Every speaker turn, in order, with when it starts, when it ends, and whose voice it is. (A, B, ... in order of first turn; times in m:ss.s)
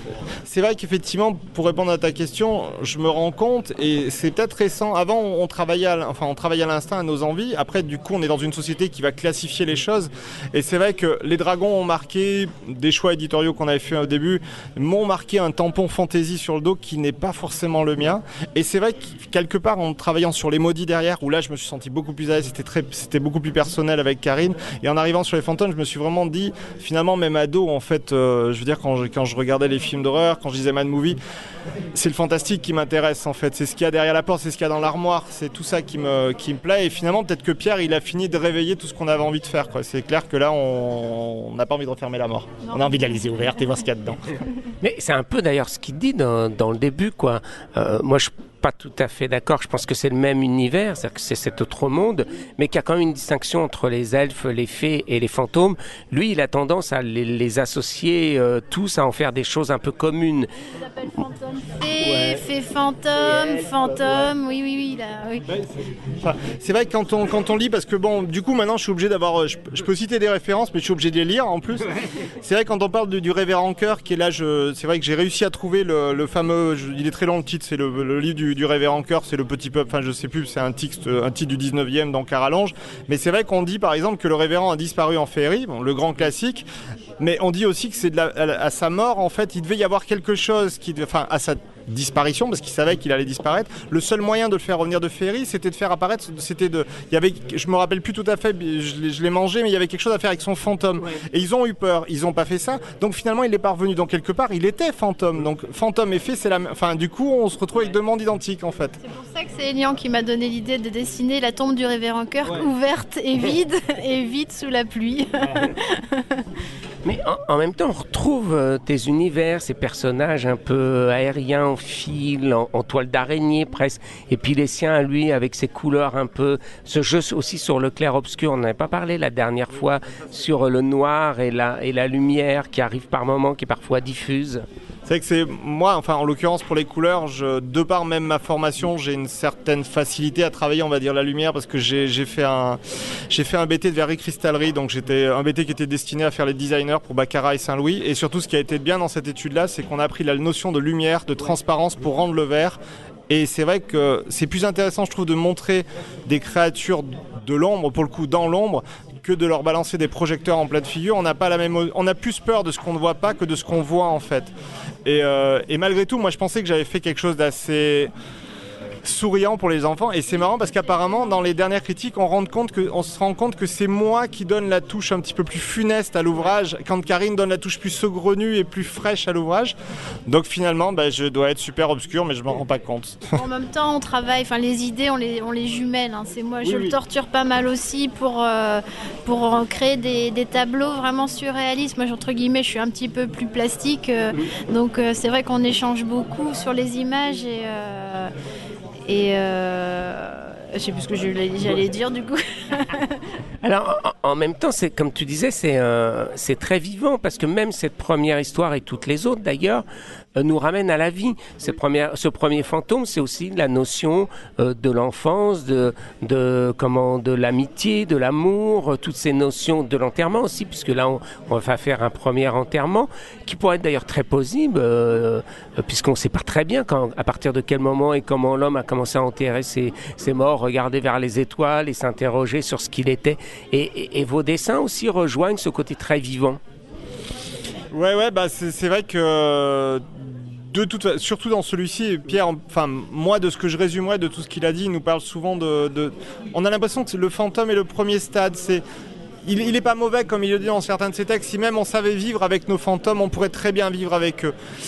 0:00.5-0:31.2 A
0:31.9-0:44.2 A
0:42.6-0:43.0 B
0:44.8-1:00.5 C
1:00.8-1:05.4 B
1:05.5-1:11.9 A
1:12.4-1:26.7 A
1:27.2-1:49.0 A
1:49.0-1:56.4 B
1:57.0-2:14.6 C
2:15.1-2:22.8 A
2:23.3-2:44.5 A
2:45.0-2:48.1 A
2:49.0-2:59.7 A
2:50.6-2:51.3 B
3:00.3-3:03.3 A
3:03.3-3:18.3 B
3:06.6-3:07.0 A
3:19.0-3:23.2 B
3:23.6-3:29.8 C
3:30.4-3:56.6 C
3:57.9-4:08.8 A
4:09.4-4:14.5 A